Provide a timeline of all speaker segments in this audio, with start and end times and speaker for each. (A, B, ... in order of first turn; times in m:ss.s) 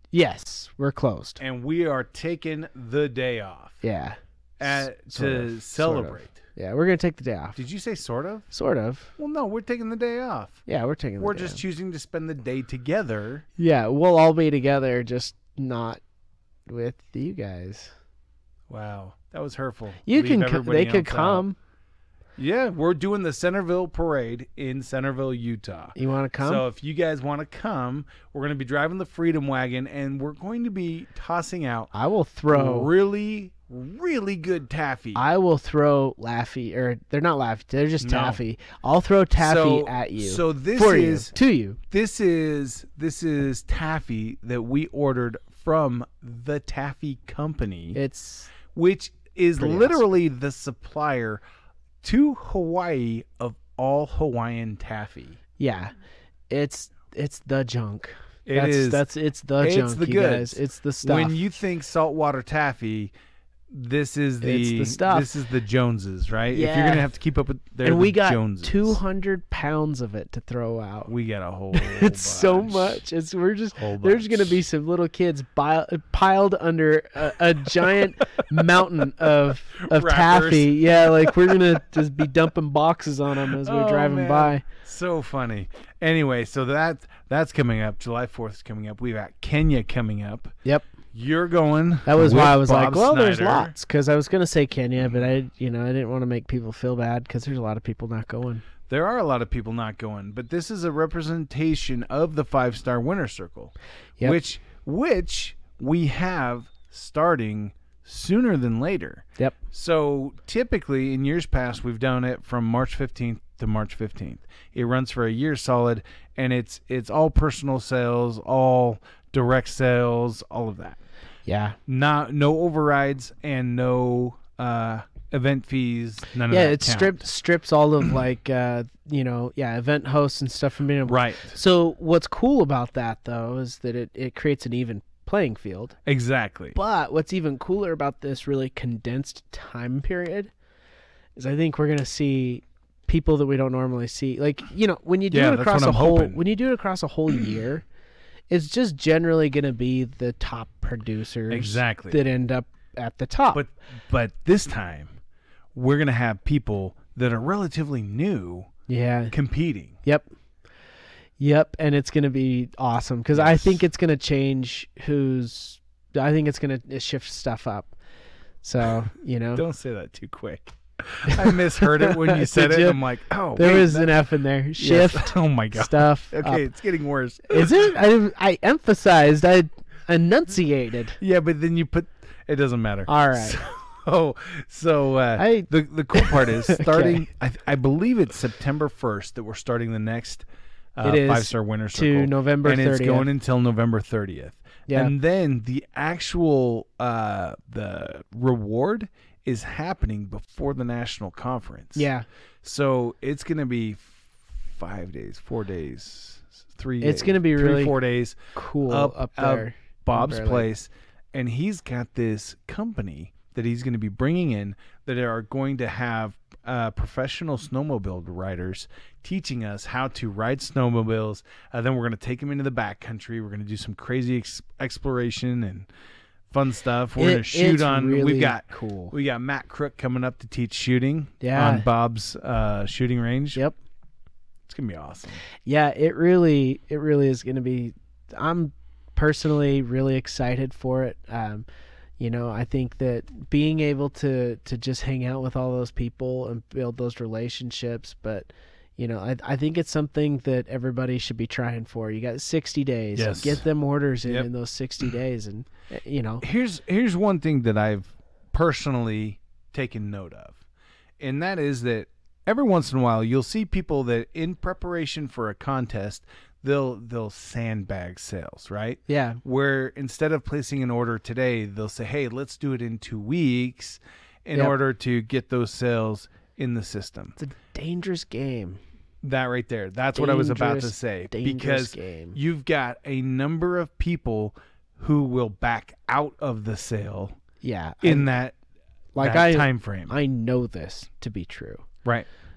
0:00.1-0:01.4 A
0:01.4-0:03.8 B
0:03.8-0:07.6 A
0:04.6-0:06.4 B
0:07.6-0:08.5 B
0:08.5-0:09.2 A
0:09.2-0:10.6 B
0:10.7-0:11.6 A
0:11.2-0:13.4 B
0:13.6-0:16.0 A
0:16.7-0:17.9 A
0:18.7-0:21.5 B
0:20.1-0:21.6 A
0:22.4-0:31.9 B
0:26.0-0:26.6 A
0:31.9-0:32.9 A
0:32.5-0:35.2 B
0:35.2-0:41.8 A
0:38.0-0:38.4 B
0:39.4-0:41.3 B
0:41.9-0:48.0 B
0:47.9-0:48.5 A
0:48.7-0:51.4 B
0:49.6-0:50.0 A
0:52.0-0:55.4 B
0:55.6-0:55.9 A
0:56.5-1:01.4 A
0:58.5-0:59.1 B
0:59.6-1:03.1 B
1:03.7-1:09.0 B
1:04.4-1:05.3 A
1:06.5-1:07.1 A
1:07.8-1:11.1 A
1:11.1-1:13.0 B
1:11.7-1:24.6 A
1:13.8-1:14.6 B
1:19.8-1:21.6 B
1:23.5-1:30.5 B
1:30.6-1:30.9 A
1:31.1-1:33.7 B
1:32.0-1:38.6 A
1:38.9-2:01.0 B
2:01.5-2:01.8 A
2:01.9-2:07.2 B
2:06.5-2:16.0 A
2:11.1-2:11.6 B
2:16.1-2:16.8 B
2:16.7-2:20.5 A
2:21.4-2:27.9 A
2:25.3-2:26.4 B
2:28.5-2:33.6 A
2:31.5-2:32.2 B
2:33.5-2:35.1 B
2:35.7-2:38.7 B
2:38.9-2:39.3 A
2:39.3-2:40.0 B
2:40.0-2:40.3 A
2:41.4-2:48.0 A
2:43.4-2:43.8 B
2:48.6-2:49.6 A
2:49.6-2:54.2 B
2:51.3-2:53.0 A
2:53.6-2:56.7 A
2:54.8-2:57.9 B
2:57.5-3:01.2 A
3:01.2-3:10.5 B
3:03.1-3:03.6 A
3:05.4-3:07.3 A
3:11.0-3:22.1 B
3:11.0-3:13.3 A
3:14.9-3:15.1 A
3:22.0-3:22.3 A
3:22.6-3:45.9 B
3:27.0-3:28.0 A
3:28.5-3:30.7 A
3:46.5-3:53.6 B
3:47.2-3:49.1 A
3:51.4-3:51.8 A
3:54.7-3:55.4 B
3:55.6-4:01.7 A
4:02.2-4:16.4 A
4:13.2-4:13.6 B
4:16.4-4:20.6 B
4:21.2-4:37.4 B
4:29.1-4:29.4 A
4:37.4-4:38.8 A
4:39.2-4:47.4 B
4:40.2-4:42.4 A
4:47.6-4:48.4 A
4:48.0-4:48.6 B
4:49.2-4:51.8 A
4:49.2-4:50.1 B